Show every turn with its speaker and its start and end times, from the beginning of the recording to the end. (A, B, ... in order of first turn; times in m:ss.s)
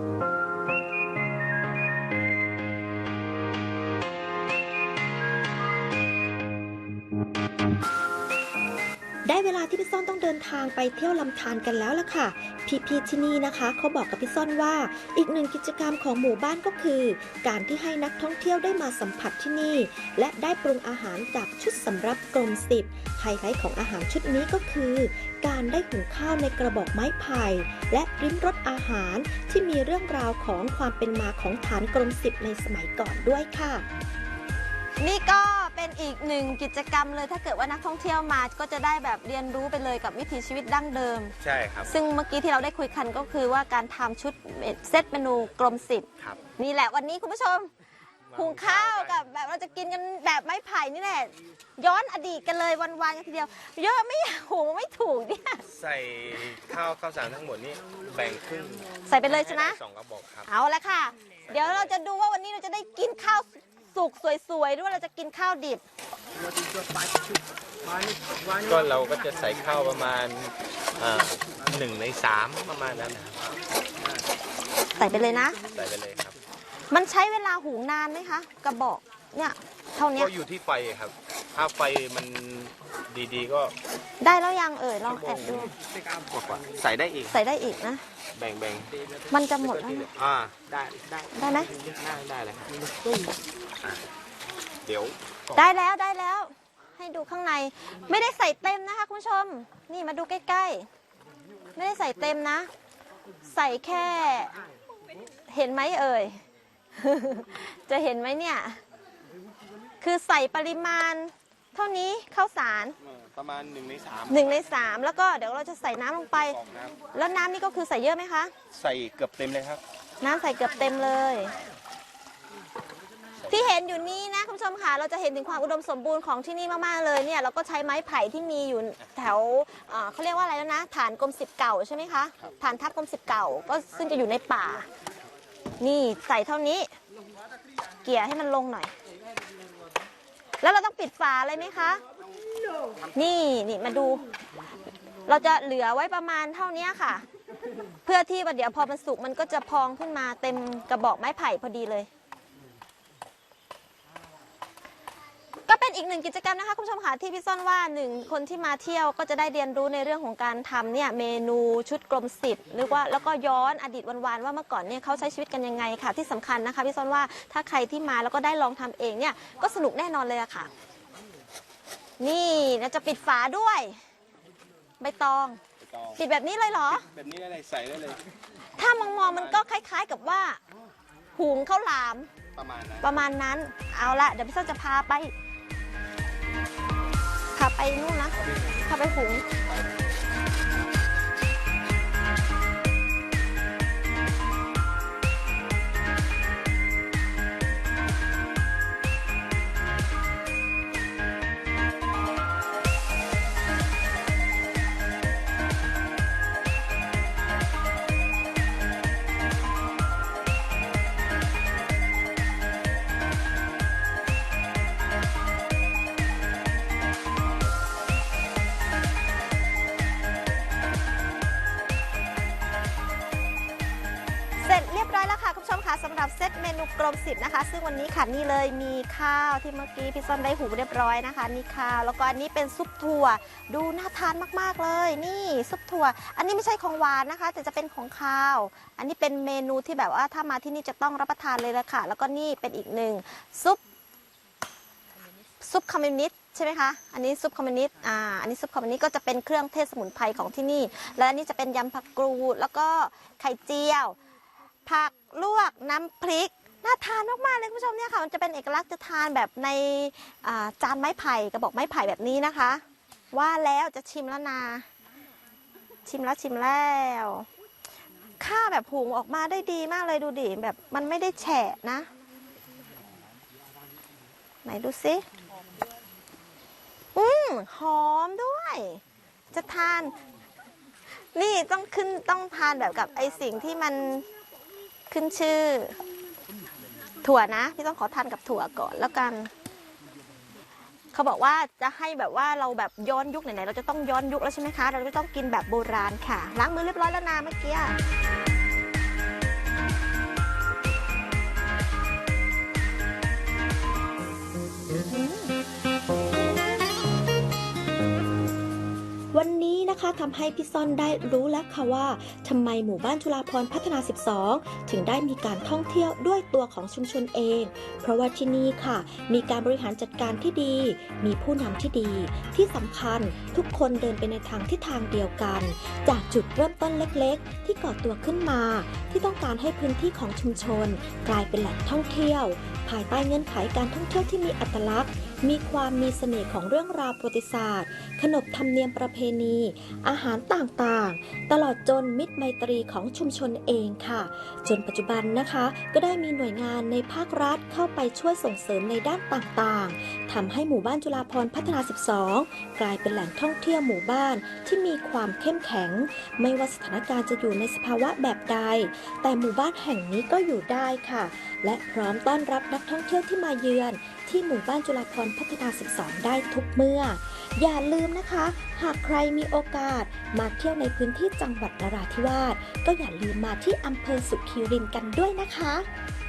0:09.2-0:33.8 A
0:35.0-0:41.3 B
0:41.4-0:41.9 C
0:41.8-0:47.7 B
0:48.3-0:49.2 C
0:48.3-0:55.6 B
0:55.7-1:00.5 C
0:59.0-0:59.8 B
1:00.5-1:05.8 B
1:01.5-1:01.9 C
1:08.0-1:13.5 C
1:15.0-1:15.6 B
1:15.6-1:16.4 C
1:16.9-1:20.3 B
1:20.1-1:23.7 C
1:24.2-1:25.7 B
1:25.0-1:27.4 C
1:27.3-1:28.0 B
1:28.4-1:34.0 C
1:29.3-1:30.1 B
1:31.3-1:31.7 B
1:34.8-1:35.6 C
1:35.6-1:40.9 B
1:41.7-1:42.7 B
1:43.5-1:44.5 B
1:45.5-1:46.4 B
1:47.0-1:48.8 B
1:50.0-1:53.0 B
1:53.0-1:54.6 C
1:54.3-1:56.6 B
1:56.3-1:57.0 C
1:57.1-1:58.5 B
1:58.7-1:59.8 C
2:00.2-2:01.5 B
2:03.4-2:03.7 C
2:03.5-2:14.9 B
2:15.8-2:16.9 B
2:18.0-2:18.9 B
2:20.6-2:22.0 B
2:23.1-2:24.2 B
2:25.2-2:27.2 B
2:28.0-2:32.1 B
2:35.7-2:50.7 B
2:52.2-2:54.0 B
2:55.0-2:55.6 B
2:55.8-2:56.2 C
2:56.2-2:57.1 B
2:56.9-2:58.2 C
2:58.8-3:00.6 B
2:59.2-2:59.6 C
3:01.4-3:02.3 B
3:02.5-3:03.2 C
3:03.0-3:05.3 B
3:07.5-3:09.4 B
3:44.6-4:03.8 B
4:05.6-4:14.2 B
4:14.8-4:24.9 B
4:26.0-4:27.5 B
4:28.4-4:32.1 B
4:34.6-4:35.2 B
4:37.2-4:39.0 B
4:39.5-4:40.2 B
4:41.3-4:44.2 B
4:45.1-4:46.0 B
4:47.2-4:49.5 B
4:51.1-4:58.0 B
5:05.1-5:05.5 B
5:09.3-6:15.9 A